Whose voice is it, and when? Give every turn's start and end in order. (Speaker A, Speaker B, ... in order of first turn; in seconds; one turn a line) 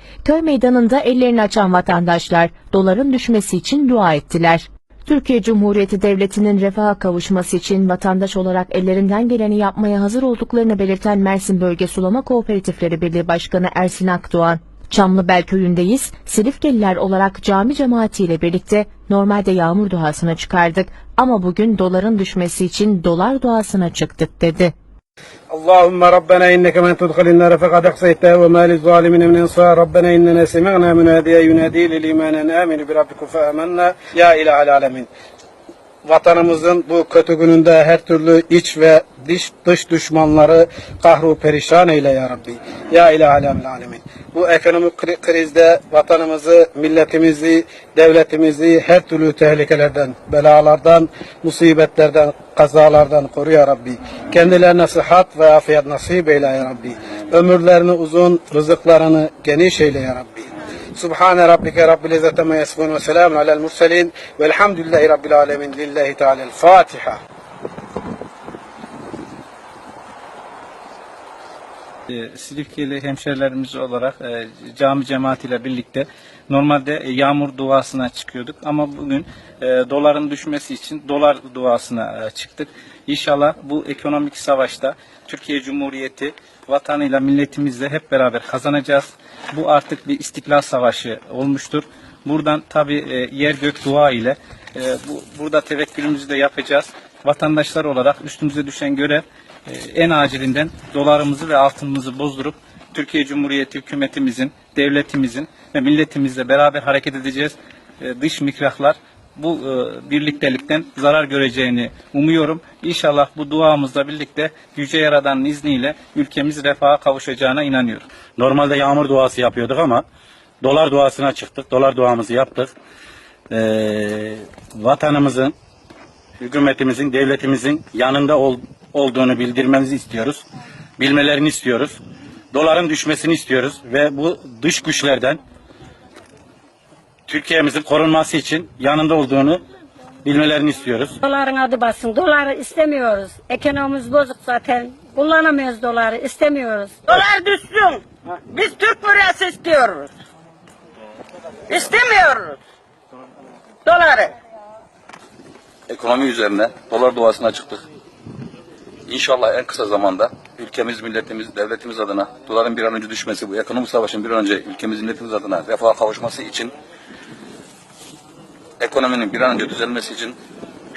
Speaker A: 0.2-24.7
Speaker B: 25.5-35.1
Speaker B: 36.0-67.2
Speaker C: 72.1-118.0
Speaker D: 118.4-120.0
Speaker D: 120.6-122.7
Speaker D: 123.5-125.5
Speaker D: 126.4-130.4
Speaker D: 131.0-131.9
Speaker D: 132.5-135.4
Speaker D: 137.3-139.6
Speaker D: 140.2-141.2
Speaker E: 141.2-149.9
Speaker F: 147.1-150.1
Speaker E: 151.7-152.1
Speaker F: 151.7-152.6
Speaker F: 153.9-154.3
Speaker G: 155.9-157.8
Speaker G: 159.1-166.7
Speaker G: 168.8-170.4